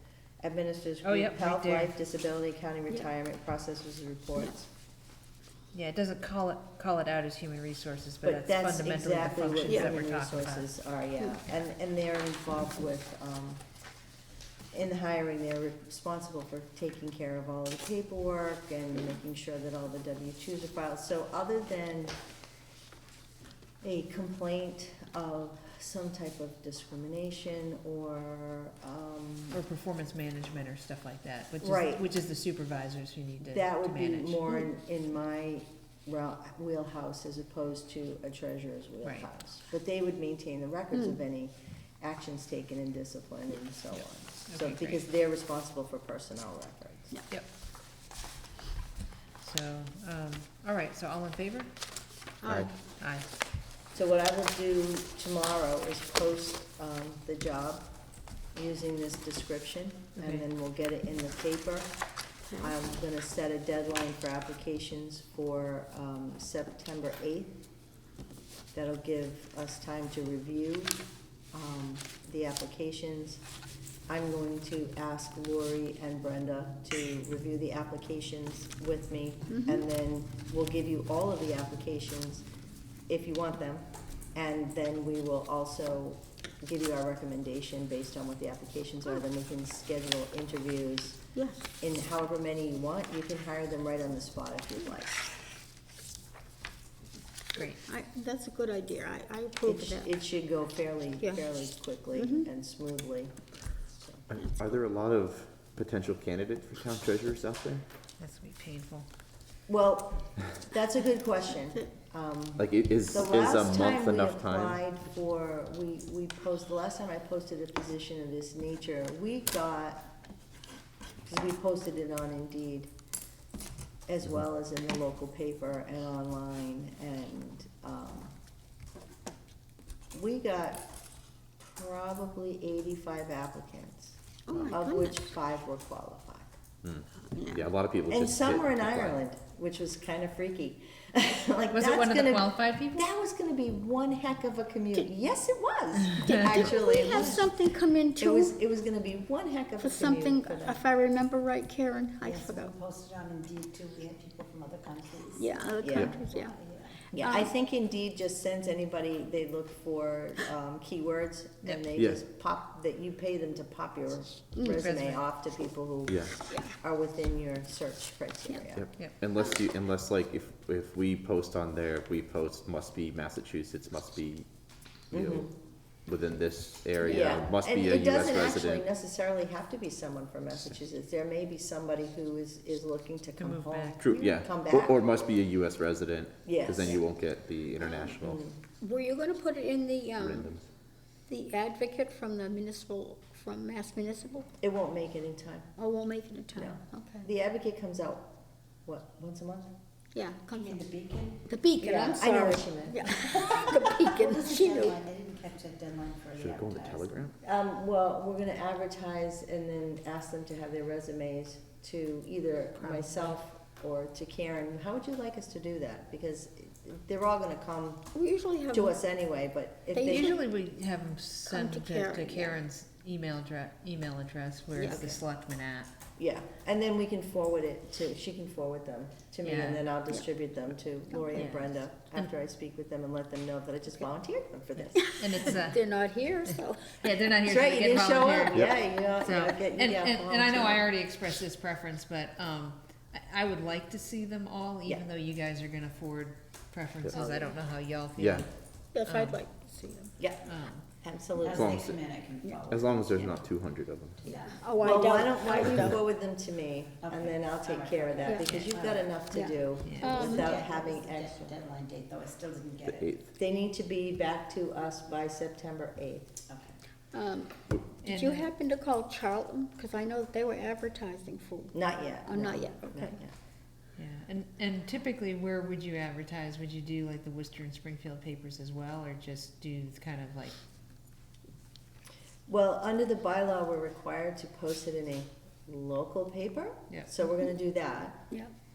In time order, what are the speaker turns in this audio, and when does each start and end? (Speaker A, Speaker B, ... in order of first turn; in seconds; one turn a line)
Speaker A: 0.4-4.7
Speaker B: 1.0-1.9
Speaker B: 5.7-10.7
Speaker A: 8.2-13.6
Speaker C: 9.7-9.9
Speaker A: 14.7-22.2
Speaker A: 23.8-29.6
Speaker B: 29.5-34.5
Speaker A: 31.6-32.0
Speaker A: 33.4-47.1
Speaker B: 39.0-39.3
Speaker B: 44.3-45.1
Speaker B: 49.4-51.8
Speaker C: 52.4-52.7
Speaker D: 52.5-52.7
Speaker B: 53.0-53.3
Speaker A: 53.9-57.9
Speaker A: 58.5-61.9
Speaker B: 60.1-60.4
Speaker A: 62.5-67.6
Speaker A: 68.7-73.4
Speaker A: 74.1-82.4
Speaker C: 79.5-79.8
Speaker A: 83.1-91.2
Speaker C: 91.3-91.7
Speaker A: 91.8-95.2
Speaker B: 97.5-97.8
Speaker C: 97.8-100.1
Speaker A: 99.6-103.3
Speaker C: 101.2-102.5
Speaker A: 104.0-104.2
Speaker D: 104.3-107.8
Speaker B: 108.2-109.1
Speaker A: 109.7-120.1
Speaker D: 112.6-114.8
Speaker A: 121.2-122.9
Speaker A: 124.1-128.3
Speaker A: 130.1-130.8
Speaker A: 131.6-134.2
Speaker C: 134.5-135.2
Speaker A: 134.7-136.6
Speaker D: 136.8-139.2
Speaker C: 137.3-137.6
Speaker A: 138.1-147.5
Speaker B: 141.7-143.1
Speaker B: 146.1-146.4
Speaker C: 146.3-148.5
Speaker A: 148.2-150.8
Speaker C: 149.8-152.7
Speaker E: 152.2-157.1
Speaker C: 155.3-156.6
Speaker A: 155.8-156.1
Speaker C: 157.1-157.5
Speaker A: 157.1-168.9
Speaker D: 161.9-162.2
Speaker C: 164.6-164.8
Speaker B: 164.7-165.2
Speaker D: 166.1-166.3
Speaker D: 168.8-174.5
Speaker A: 175.1-175.5
Speaker D: 175.1-175.5
Speaker D: 176.1-178.8
Speaker A: 177.0-185.2
Speaker B: 183.4-184.4
Speaker D: 184.0-188.4
Speaker A: 186.4-187.0
Speaker C: 187.8-188.1
Speaker A: 188.2-188.6
Speaker C: 188.8-190.5
Speaker D: 190.2-190.6
Speaker C: 191.3-194.5
Speaker A: 194.6-195.7
Speaker C: 195.8-197.3
Speaker A: 196.5-198.3
Speaker A: 198.8-199.7
Speaker C: 200.1-200.9
Speaker E: 200.5-201.5
Speaker C: 201.4-205.0
Speaker A: 201.8-203.7
Speaker E: 204.1-207.1
Speaker D: 206.4-207.3
Speaker A: 207.4-218.1
Speaker B: 212.8-213.4
Speaker C: 218.1-219.0
Speaker A: 218.7-220.4
Speaker C: 219.9-220.4
Speaker B: 220.0-225.9
Speaker C: 221.4-222.6
Speaker C: 224.8-225.2
Speaker A: 226.2-235.5
Speaker B: 229.4-229.8
Speaker B: 231.3-232.3
Speaker B: 234.8-248.5
Speaker C: 235.0-237.0
Speaker A: 237.4-240.8
Speaker C: 247.1-247.5
Speaker D: 248.2-248.5
Speaker C: 248.9-250.1
Speaker B: 249.1-249.4
Speaker B: 250.4-250.9
Speaker A: 251.0-251.7
Speaker E: 251.3-252.9
Speaker D: 251.5-252.0
Speaker D: 252.7-254.3
Speaker E: 254.2-255.0
Speaker C: 254.5-256.0
Speaker A: 254.8-261.6
Speaker E: 257.0-263.2
Speaker C: 258.2-258.6
Speaker C: 259.3-260.6
Speaker B: 259.8-260.1
Speaker D: 262.9-263.2
Speaker A: 263.3-266.4
Speaker E: 266.5-266.7
Speaker C: 267.1-273.1
Speaker B: 268.0-268.5
Speaker A: 271.7-273.3
Speaker B: 274.0-280.5
Speaker A: 282.5-288.2
Speaker B: 286.9-287.2